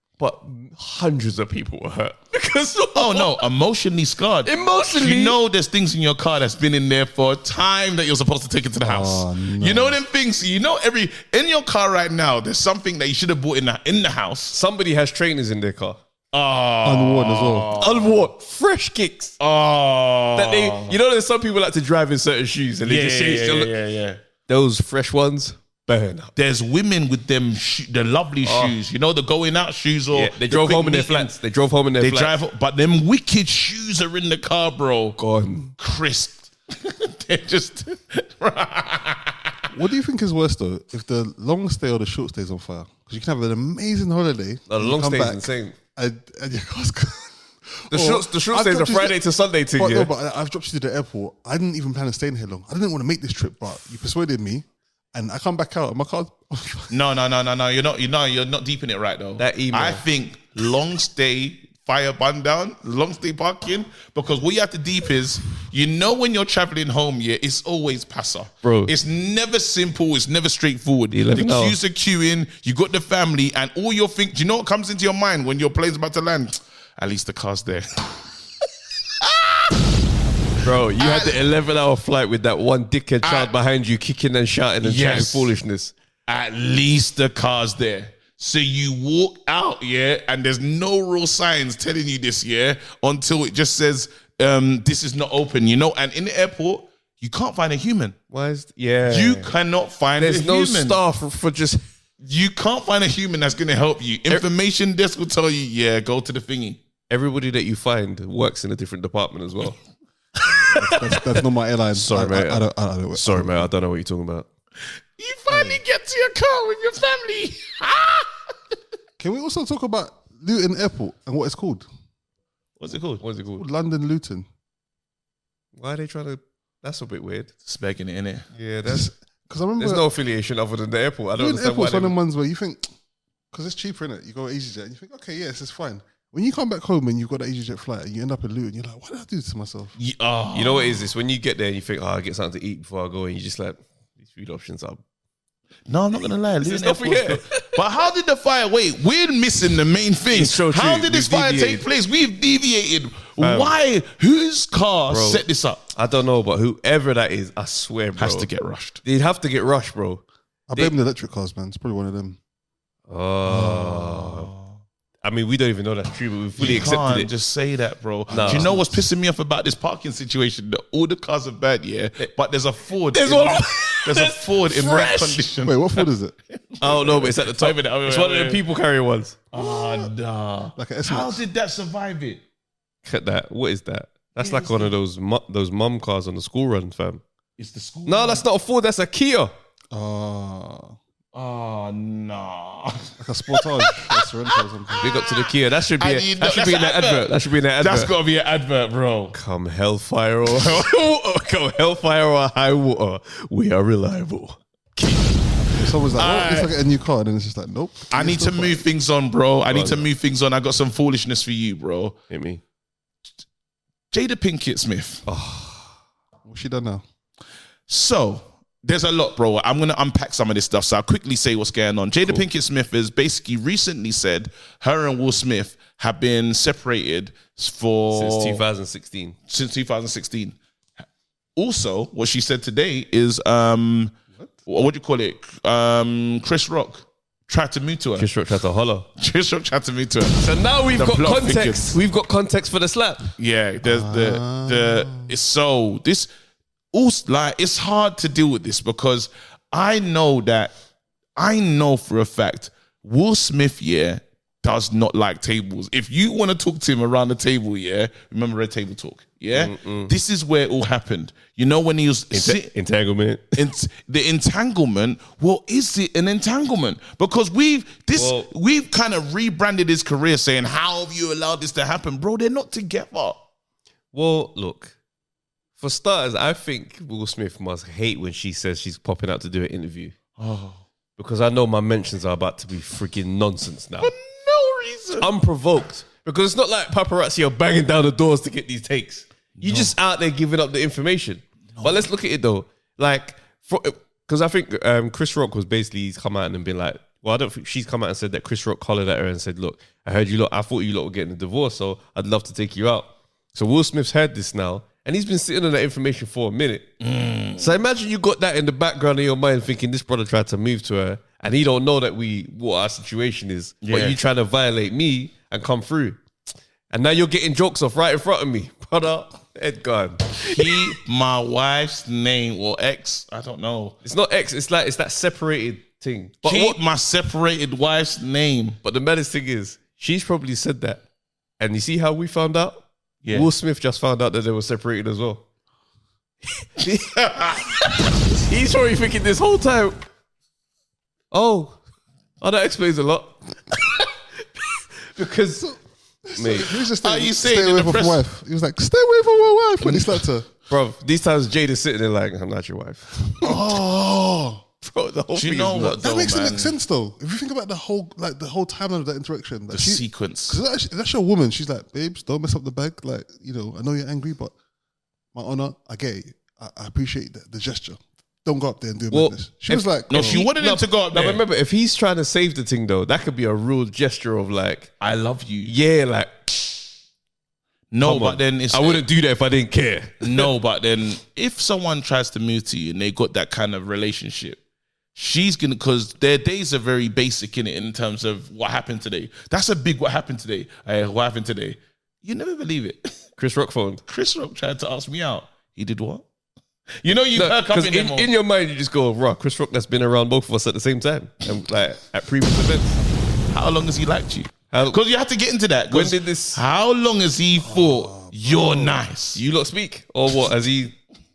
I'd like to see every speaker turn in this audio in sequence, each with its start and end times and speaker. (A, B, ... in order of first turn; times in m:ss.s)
0:00.2-0:03.4 A
0:03.0-0:14.6 B
0:04.4-0:05.4 A
0:08.8-0:10.0 C
0:14.5-0:16.0 A
0:16.3-0:18.2 B
0:16.8-0:17.7 C
0:17.8-0:19.4 A
0:19.4-0:21.0 B
0:20.4-0:23.7 A
0:22.8-0:24.2 B
0:24.5-0:26.3 A
0:26.4-0:31.3 B
0:28.4-0:28.7 A
0:30.1-0:32.3 A
0:32.0-0:35.2 B
0:35.2-0:35.7 A
0:35.8-0:39.6 B
0:39.7-0:49.2 C
0:44.7-0:45.8 A
0:47.9-0:50.1 A
0:49.7-0:56.9 C
0:56.9-1:18.2 B
0:59.4-1:00.0 A
1:08.6-1:08.9 A
1:11.1-1:11.8 A
1:19.2-1:19.8 B
1:20.6-1:25.9 A
1:21.0-1:21.4 B
1:23.2-1:23.5 B
1:24.8-1:25.5 B
1:26.3-1:38.2 B
1:38.3-1:39.5 A
1:39.1-1:41.0 B
1:40.2-1:41.8 A
1:42.2-1:46.8 B
1:47.1-1:49.8 A
1:50.6-1:51.3 A
1:50.6-1:53.7 C
1:51.9-1:54.5 A
1:55.2-1:58.4 B
1:59.2-2:01.8 C
2:02.8-2:03.2 B
2:03.2-2:03.6 A
2:03.6-2:04.5 C
2:05.8-2:07.5 A
2:07.7-2:08.5 B
2:08.5-2:09.1 A
2:08.9-2:10.1 C
2:09.8-2:12.2 A
2:11.4-2:12.8 C
2:13.5-2:20.0 C
2:20.0-2:21.1 B
2:20.5-2:25.0 A
2:25.9-2:35.9 B
2:26.6-2:27.8 A
2:30.3-2:31.8 A
2:33.4-2:33.8 A
2:35.1-2:35.4 A
2:36.0-2:38.5 A
2:38.2-2:39.0 B
2:39.0-2:40.2 A
2:40.7-2:42.4 C
2:43.1-2:44.5 A
2:43.5-2:44.0 C
2:45.2-2:47.3 A
2:46.6-2:58.6 B
2:48.3-2:48.7 A
2:48.3-2:49.0 C
2:53.1-2:55.4 A
2:55.6-2:56.4 C
2:56.8-2:59.4 A
2:59.5-3:02.4 B
2:59.6-3:00.1 C
3:00.8-3:01.4 C
3:03.1-3:07.2 A
3:04.4-3:04.9 B
3:07.6-3:08.5 B
3:08.1-3:09.5 A
3:09.9-3:11.0 C
3:11.3-3:19.4 B
3:13.2-3:15.1 C
3:15.0-3:18.1 A
3:19.3-3:25.4 A
3:25.7-3:28.8 C
3:26.2-3:26.7 B
3:28.1-3:32.2 B
3:29.7-3:30.1 A
3:32.3-3:32.6 A
3:34.1-3:35.2 B
3:35.3-3:36.0 A
3:36.4-3:37.0 C
3:37.9-3:48.6 B
3:48.1-3:49.4 A
3:49.5-3:50.6 B
3:51.6-3:58.3 B
3:58.2-3:59.1 A
3:59.2-4:00.4 B
4:00.4-4:03.3 A
4:01.0-4:02.0 B
4:03.4-4:06.3 B
4:03.8-4:05.3 C
4:06.9-4:10.7 B
4:11.4-4:22.7 B
4:19.5-4:20.1 A
4:22.3-4:23.7 A
4:23.6-4:33.4 B
4:28.2-4:28.5 A
4:34.1-4:35.0 A
4:35.8-4:40.2 A
4:40.4-4:40.8 B
4:41.2-4:44.1 A
4:44.0-4:45.3 B
4:45.2-5:06.9 A
4:49.6-4:49.9 B
4:51.8-4:52.0 B
5:07.0-5:07.7 B
5:07.6-5:16.2 A
5:13.8-5:14.2 B
5:16.9-5:21.0 A
5:20.4-5:24.0 B
5:24.0-5:26.8 A
5:26.4-5:28.8 B
5:28.8-5:31.0 A
5:31.6-5:35.4 A
5:33.2-5:33.5 B
5:36.6-5:37.1 A
5:37.1-5:37.7 B
5:37.8-5:40.0 A
5:41.3-5:41.8 A
5:42.4-5:45.7 A
5:45.6-5:50.5 C
5:46.3-5:46.7 A
5:47.0-5:48.2 B
5:49.8-5:50.1 B
5:50.7-5:53.6 A
5:53.4-5:54.6 C
5:54.8-5:56.0 A
5:55.4-5:56.7 B
5:56.0-6:04.5 C
5:59.7-6:00.6 B
6:05.3-6:10.4 C
6:09.1-6:14.9 A
6:10.1-6:11.4 B
6:15.0-6:15.7 B
6:15.6-6:16.8 A
6:17.9-6:19.0 B
6:18.0-6:20.5 A
6:20.2-6:24.6 B
6:25.2-6:33.2 B
6:33.4-6:34.0 A
6:34.1-6:36.2 B
6:37.0-6:38.3 B
6:37.4-6:43.0 A
6:43.5-6:49.4 B
6:44.7-6:45.0 A
6:45.9-6:46.6 A
6:47.6-6:49.0 C
6:49.4-6:51.0 A